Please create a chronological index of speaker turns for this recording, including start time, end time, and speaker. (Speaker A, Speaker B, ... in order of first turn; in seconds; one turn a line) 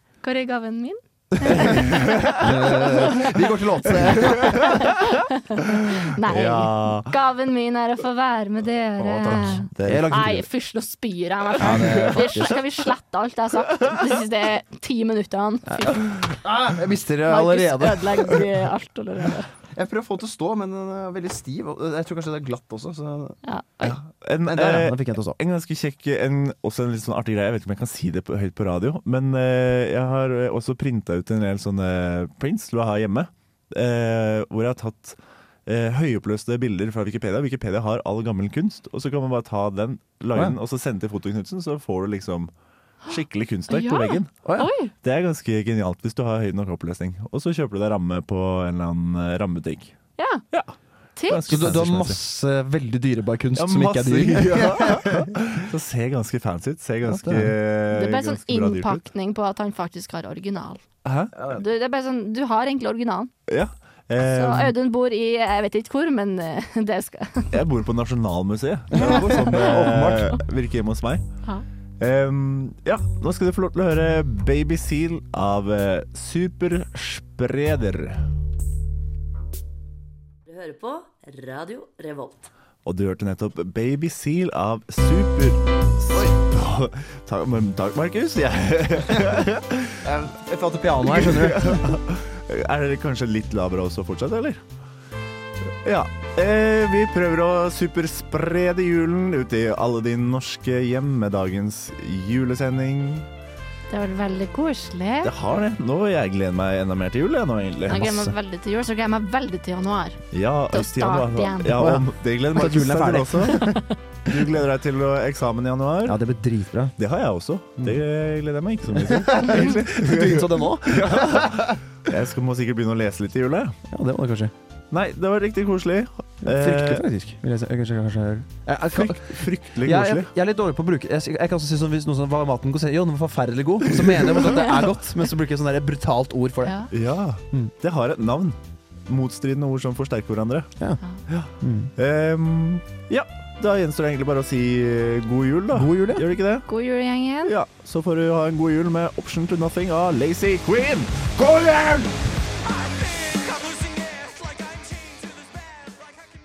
Speaker A: 0.2-16.2
Speaker B: 1.3-4.8
Speaker C: 1.5-2.5
Speaker C: 4.2-4.8
Speaker C: 6.2-7.1
Speaker C: 9.0-10.4
Speaker B: 9.3-10.4
Speaker B: 11.6-12.6
Speaker B: 15.7-18.4
Speaker A: 17.2-19.5
Speaker B: 19.7-23.4
Speaker A: 23.4-24.0
Speaker C: 23.8-42.5
Speaker B: 24.4-25.4
Speaker C: 43.1-49.9
Speaker A: 43.7-44.9
Speaker A: 50.2-50.4
Speaker A: 51.1-51.5
Speaker C: 51.2-52.2
Speaker B: 51.5-55.4
Speaker C: 53.5-59.0
Speaker B: 57.0-57.5
Speaker A: 57.9-60.8
Speaker C: 61.0-61.3
Speaker B: 61.3-61.6
Speaker A: 61.5-63.3
Speaker C: 63.5-64.7
Speaker A: 64.2-67.6
Speaker C: 67.5-71.2
Speaker B: 68.9-70.4
Speaker A: 68.9-69.8
Speaker C: 72.0-78.2
Speaker D: 80.5-82.5
Speaker C: 82.8-90.1
Speaker B: 90.0-91.8
Speaker C: 91.0-94.6
Speaker C: 95.8-103.3
Speaker A: 103.9-105.3
Speaker C: 105.2-108.1
Speaker A: 107.9-111.8
Speaker B: 107.9-108.3
Speaker C: 110.3-116.2
Speaker B: 111.7-113.8
Speaker B: 116.0-116.9
Speaker C: 117.0-123.8
Speaker B: 118.9-121.8
Speaker B: 123.9-124.5
Speaker C: 124.9-127.0
Speaker B: 126.4-136.8
Speaker C: 128.9-130.3
Speaker C: 134.0-134.6
Speaker A: 136.6-136.9
Speaker C: 136.9-140.7
Speaker C: 141.3-146.7
Speaker B: 141.6-141.9
Speaker B: 145.7-146.2
Speaker A: 146.7-147.5
Speaker C: 147.4-152.1